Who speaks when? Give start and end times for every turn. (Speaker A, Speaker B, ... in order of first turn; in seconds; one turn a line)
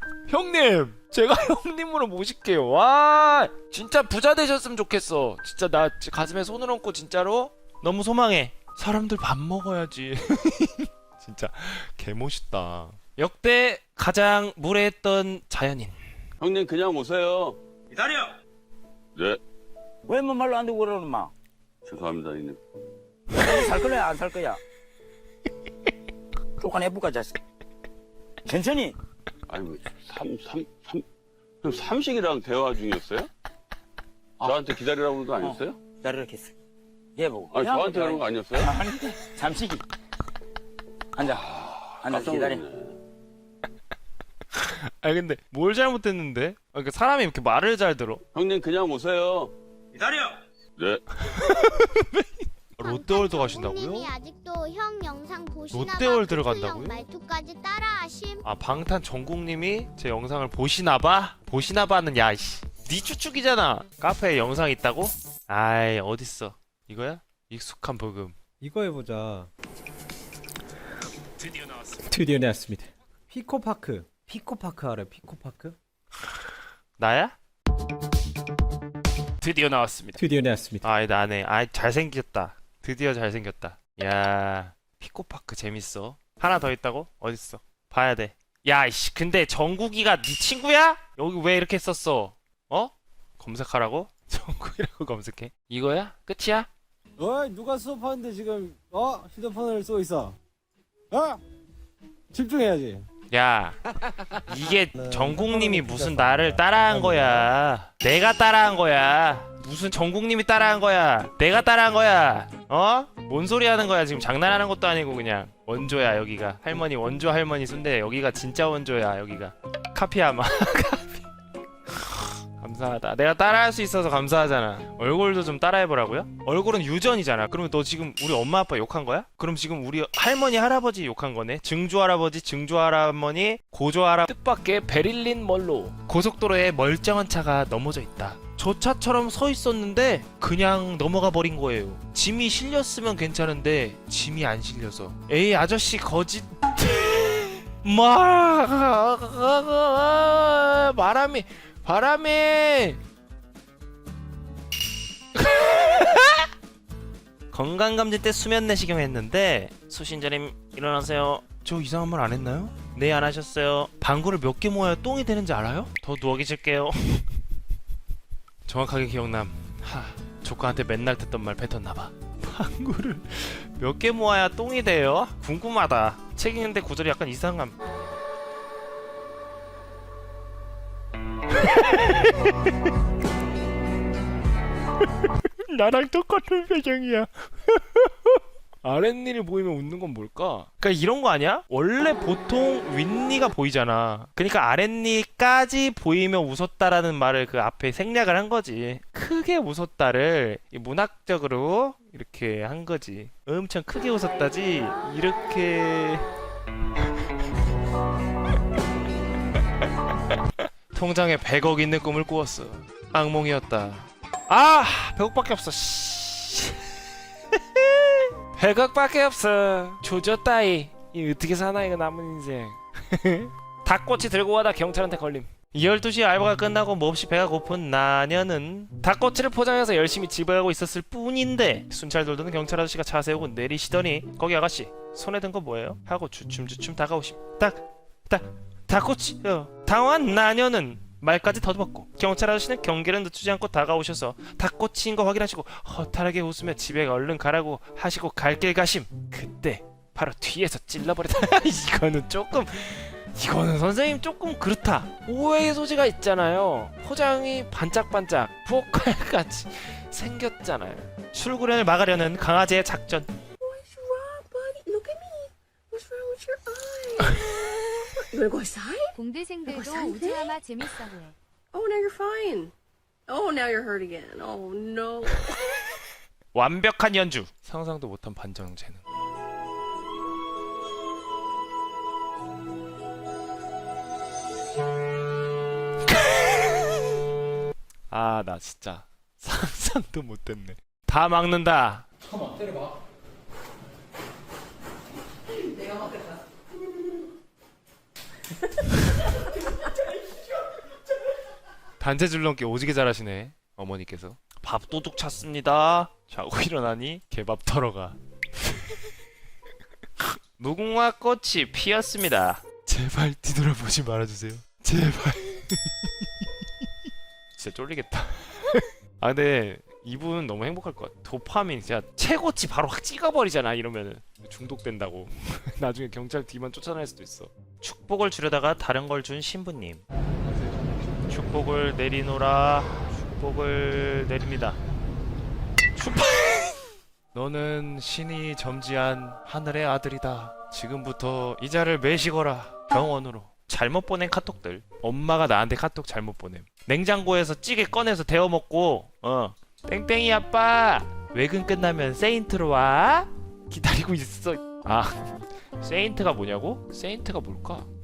Speaker A: 0.3-15.9
Speaker B: 16.4-17.6
Speaker B: 19.1-19.4
Speaker C: 20.1-21.3
Speaker B: 21.8-22.6
Speaker C: 23.4-24.6
Speaker C: 26.6-27.3
Speaker C: 28.5-28.9
Speaker B: 29.5-31.0
Speaker B: 31.6-33.3
Speaker B: 34.4-35.8
Speaker C: 37.2-37.8
Speaker B: 37.5-38.9
Speaker C: 39.2-39.8
Speaker B: 41.2-43.0
Speaker A: 44.5-48.2
Speaker B: 48.3-49.5
Speaker A: 50.0-50.3
Speaker A: 51.2-54.1
Speaker D: 52.8-58.4
Speaker A: 55.7-57.0
Speaker A: 58.4-68.4
Speaker E: 68.6-69.5
Speaker E: 72.0-75.8
Speaker A: 77.0-77.3
Speaker A: 79.4-80.2
Speaker E: 80.2-80.8
Speaker A: 80.8-96.7
Speaker F: 97.2-100.3
Speaker E: 97.2-99.9
Speaker E: 101.1-101.4
Speaker F: 102.3-103.0
Speaker E: 102.4-102.8
Speaker A: 103.3-103.8
Speaker A: 104.3-121.2
Speaker E: 105.0-107.3
Speaker A: 121.9-153.0
Speaker A: 155.3-156.4
Speaker A: 157.5-167.3
Speaker A: 168.7-177.8
Speaker A: 181.5-182.5
Speaker A: 185.2-206.3
Speaker A: 210.9-216.8
Speaker A: 217.8-263.3
Speaker G: 263.6-269.1
Speaker H: 269.1-271.3
Speaker G: 269.6-270.5
Speaker G: 271.7-272.7
Speaker G: 273.3-275.5
Speaker A: 276.5-279.0
Speaker A: 286.1-287.0
Speaker A: 288.1-292.1
Speaker A: 302.0-308.2
Speaker A: 310.5-316.4
Speaker A: 317.6-330.0
Speaker A: 331.3-334.8
Speaker A: 335.9-357.9